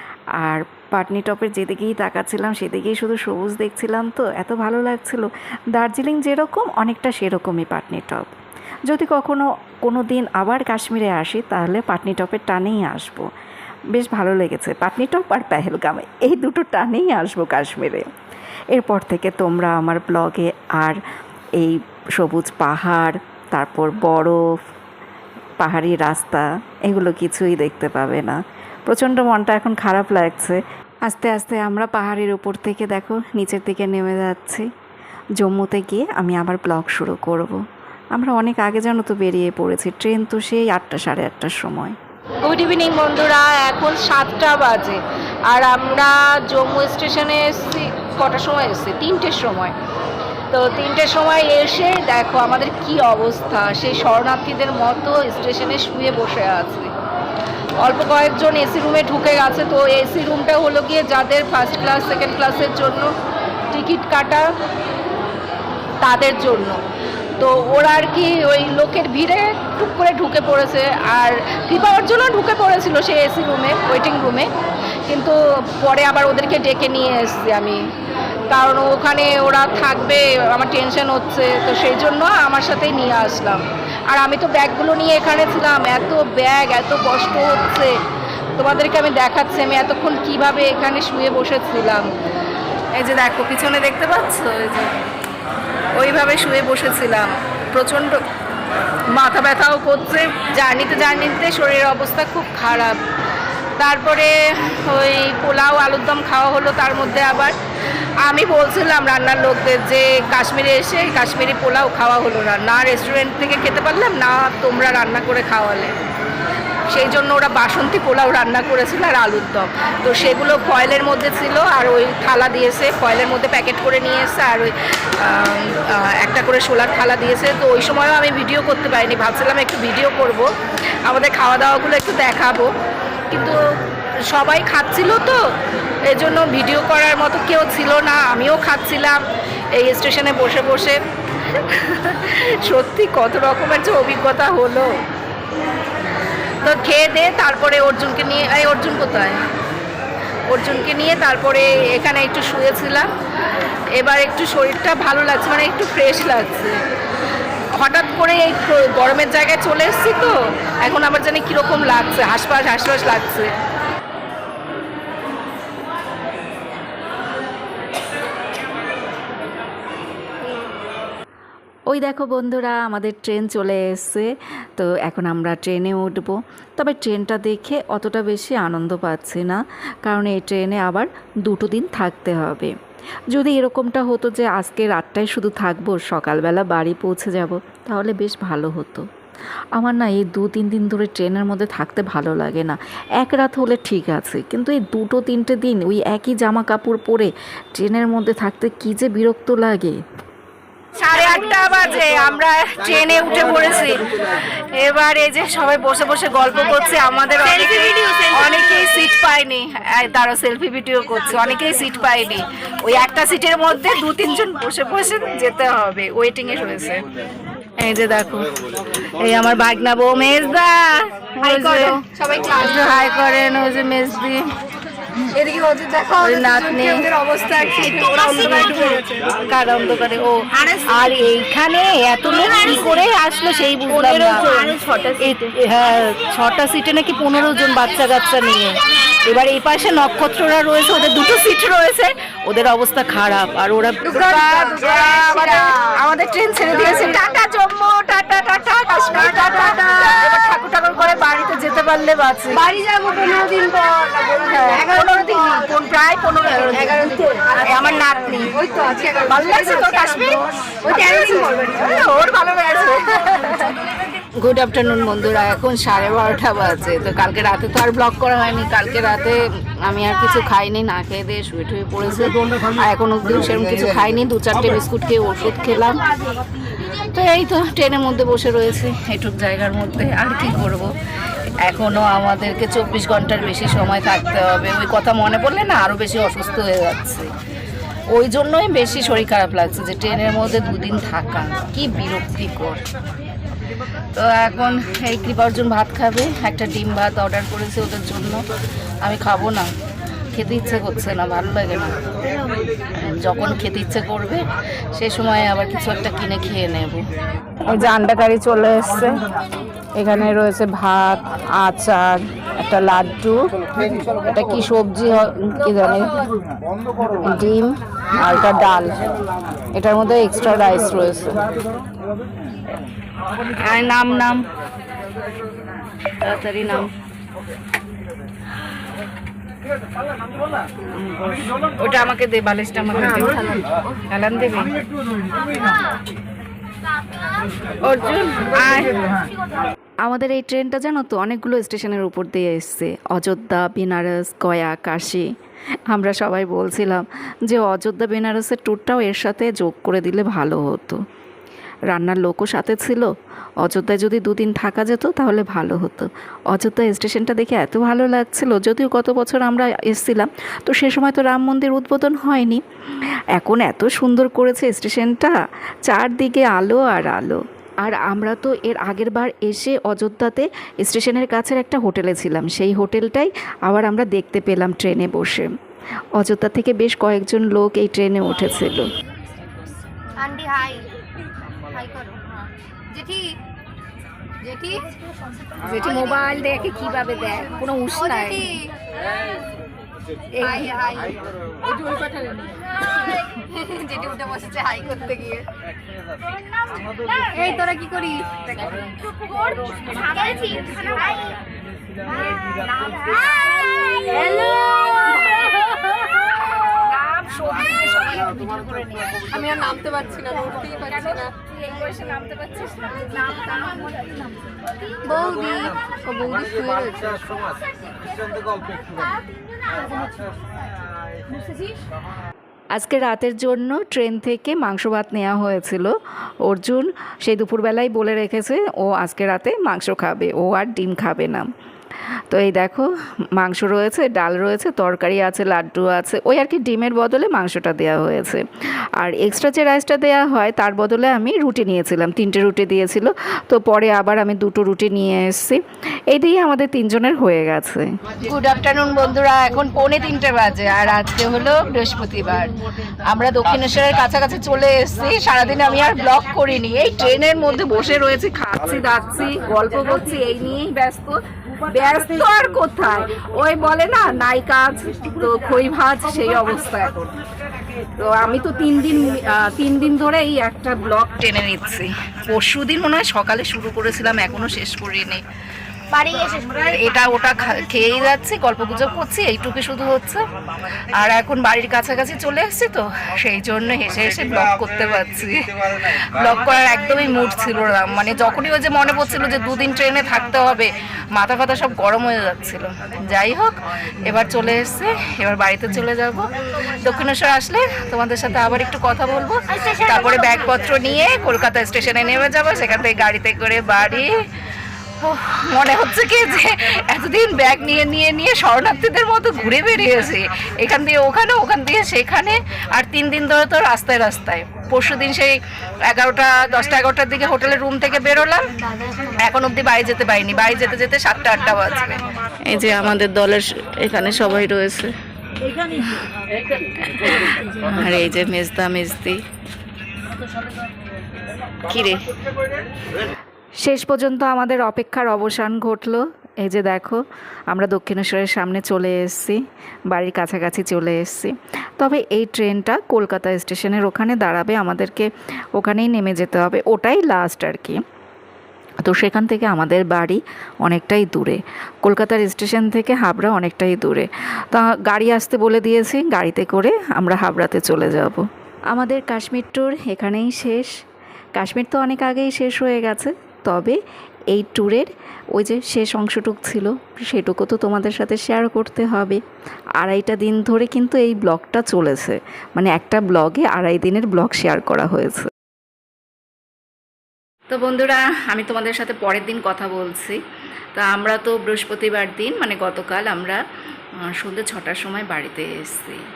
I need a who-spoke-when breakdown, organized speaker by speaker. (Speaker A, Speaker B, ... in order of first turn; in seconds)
Speaker A: 0.4-8.3, 8.9-13.3, 13.9-18.1, 18.7-21.0, 21.6-24.4, 25.6-28.4, 28.9-34.6, 35.4-37.6, 38.1-42.0, 171.9-182.7, 183.3-189.0, 189.8-200.0, 340.0-345.2, 345.9-351.0, 351.9-353.1, 353.6-365.3, 365.9-375.5, 376.2-378.8, 422.8-425.9, 426.5-431.4, 432.3-445.6, 446.1-447.9, 533.6-537.0, 537.5-539.4, 539.9-547.8, 548.8-560.7, 561.4-563.8, 564.3-569.2, 569.8-575.3, 584.4-585.4
Speaker B: 42.4-49.8, 50.5-56.9, 57.8-63.1, 63.7-64.5, 66.0-66.8, 67.4-74.5, 75.1-77.9, 78.5-88.0, 88.6-92.1, 92.9-95.0, 95.9-98.2, 99.1-103.0, 103.8-107.5, 108.2-116.0, 116.9-130.5, 131.0-132.7, 133.3-133.6, 134.3-135.4, 136.1-139.2, 139.7-144.9, 146.6-149.4, 150.5-153.1, 153.9-156.8, 157.7-163.5, 200.9-217.0, 217.8-218.5, 219.0-224.4, 226.2-227.1, 227.6-252.7, 254.4-258.6, 259.2-263.8, 264.3-276.0, 277.0-287.3, 288.1-292.8, 294.1-298.4, 299.0-299.7, 300.3-302.0, 302.9-307.1, 307.6-309.2, 309.9-316.2, 317.1-319.0, 319.7-321.4, 323.5-324.4, 326.2-326.9, 330.9-333.5, 334.1-334.7, 337.8-339.0, 385.6-388.6, 390.3-390.9, 399.4-401.0, 402.1-409.3, 410.3-414.2, 435.6-436.0, 448.2-467.0, 467.9-475.2, 475.9-504.2, 505.0-518.5, 519.0-524.9, 525.7-526.0, 526.8-529.2, 531.6-532.1, 577.5-580.1, 580.8-583.3, 585.3-585.9
Speaker C: 221.4-222.8, 225.2-229.2, 230.5-231.0, 234.1-235.4, 244.1-245.9, 252.5-255.7, 256.6-262.1, 380.1-380.9, 381.7-382.2, 382.9-383.4, 384.4-384.9, 387.9-388.7, 390.4-395.5, 397.2-401.3, 402.3-404.3, 405.6-406.0, 409.3-411.3, 415.0-417.4